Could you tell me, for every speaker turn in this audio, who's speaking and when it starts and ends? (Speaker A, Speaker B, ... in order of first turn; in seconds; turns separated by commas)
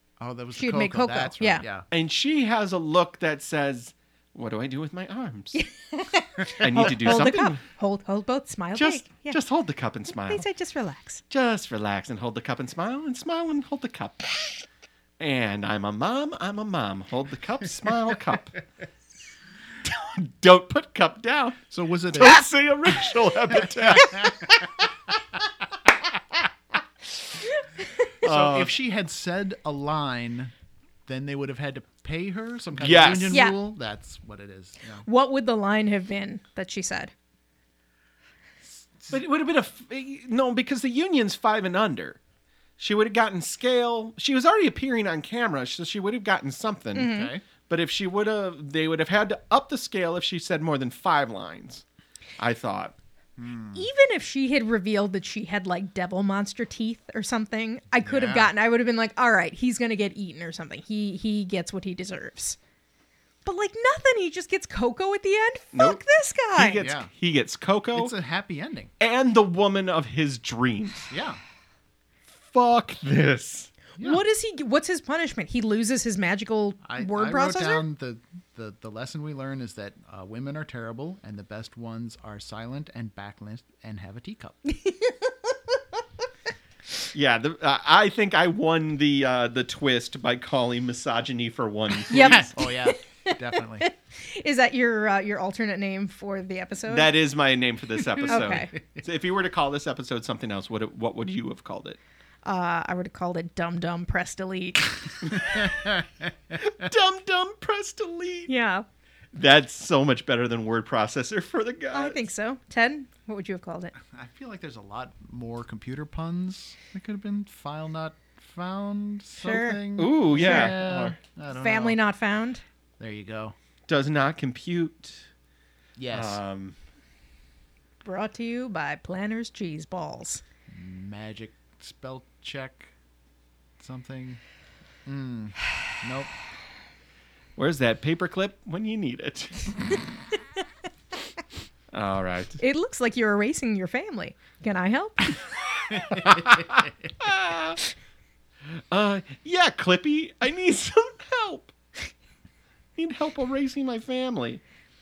Speaker A: 0.2-1.9, Speaker B: 0.6-1.7, Speaker C: 1.9-5.6, Speaker B: 5.5-9.4, Speaker C: 6.6-7.6, Speaker A: 6.6-7.0, Speaker C: 8.8-10.4, Speaker B: 10.1-11.2, Speaker C: 11.3-14.5, Speaker C: 15.2-18.6, Speaker C: 19.9-24.7, Speaker A: 21.7-22.5, Speaker A: 23.5-24.4, Speaker C: 28.2-28.7, Speaker A: 28.2-30.5, Speaker A: 31.1-35.1, Speaker C: 32.8-33.4, Speaker B: 33.3-33.6, Speaker B: 35.1-37.1, Speaker A: 38.6-39.1, Speaker C: 39.1-42.2, Speaker C: 42.8-47.1, Speaker B: 47.0-47.3, Speaker A: 47.0-47.4, Speaker C: 47.7-51.8, Speaker C: 52.4-53.0, Speaker A: 53.4-53.9, Speaker B: 53.8-62.6, Speaker A: 58.0-58.5, Speaker B: 63.5-66.9, Speaker C: 65.7-66.0, Speaker C: 66.5-68.1, Speaker A: 66.7-67.1, Speaker A: 67.9-68.9, Speaker C: 69.0-71.1, Speaker A: 71.1-71.4, Speaker C: 72.4-73.9, Speaker B: 74.0-77.8, Speaker A: 76.8-84.6, Speaker B: 84.7-85.5, Speaker C: 87.1-92.5, Speaker A: 92.1-93.9, Speaker B: 92.1-97.1, Speaker C: 96.9-102.0, Speaker A: 98.2-99.0, Speaker B: 98.3-98.7, Speaker B: 102.5-105.6, Speaker A: 105.5-106.1, Speaker C: 106.6-108.5, Speaker B: 108.5-108.8, Speaker C: 109.3-112.2, Speaker B: 111.9-113.9, Speaker A: 114.0-122.0, Speaker B: 119.4-119.8, Speaker C: 120.0-121.2, Speaker B: 120.4-120.8, Speaker B: 121.5-122.6, Speaker A: 123.0-123.5, Speaker C: 123.9-125.3, Speaker A: 126.0-126.4, Speaker C: 126.1-126.8, Speaker B: 128.0-130.4, Speaker A: 130.7-132.9, Speaker A: 133.8-134.4, Speaker A: 135.1-136.3, Speaker C: 137.6-140.0, Speaker C: 141.9-142.6, Speaker B: 142.6-145.4, Speaker C: 145.9-147.8, Speaker A: 146.1-146.5, Speaker C: 148.9-151.7, Speaker C: 153.0-154.6